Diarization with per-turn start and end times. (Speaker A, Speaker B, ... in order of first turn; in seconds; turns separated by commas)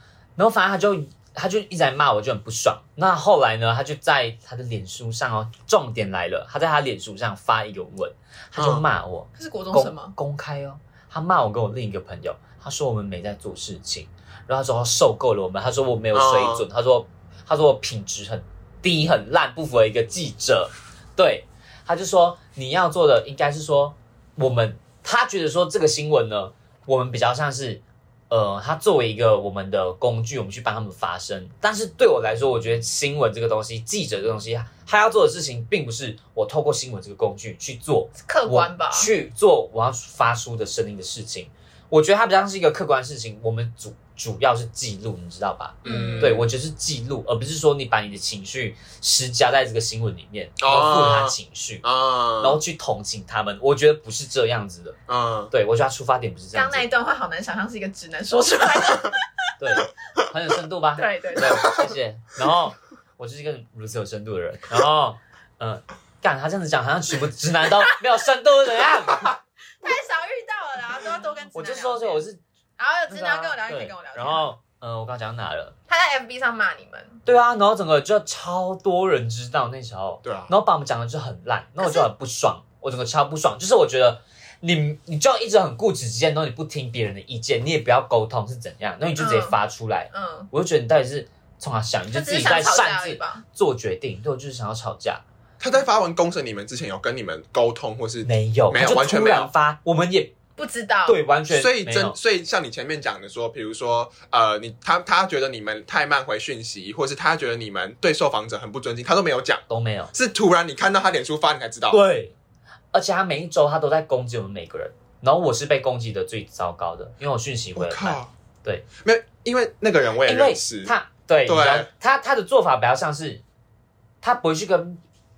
Speaker A: 0.4-51.8, Speaker B: 8.6-8.8, Speaker C: 9.4-10.1, Speaker B: 16.1-16.6, Speaker C: 38.2-39.1, Speaker B: 45.8-46.4, Speaker C: 45.8-46.5, Speaker B: 50.6-52.6, Speaker A: 52.4-55.0, Speaker B: 55.1-55.5, Speaker A: 55.5-56.9, Speaker C: 56.5-59.2, Speaker A: 59.6-69.4, Speaker C: 61.0-61.9, Speaker C: 69.8-72.2, Speaker A: 71.5-72.4, Speaker C: 72.8-74.5, Speaker A: 73.1-75.7, Speaker C: 75.9-77.2, Speaker A: 77.2-95.2, Speaker B: 80.2-80.5, Speaker C: 81.8-82.1, Speaker C: 89.2-89.6, Speaker C: 90.1-90.5, Speaker C: 92.1-93.4, Speaker B: 95.6-99.5, Speaker A: 98.2-100.3, Speaker C: 100.6-101.2, Speaker A: 101.0-102.2, Speaker B: 101.5-109.6, Speaker A: 109.7-110.1, Speaker B: 110.1-112.0, Speaker A: 111.9-112.3, Speaker A: 112.9-118.8, Speaker B: 117.7-118.3, Speaker B: 119.0-120.9, Speaker A: 120.2-123.4, Speaker B: 121.5-121.9, Speaker A: 124.2-125.0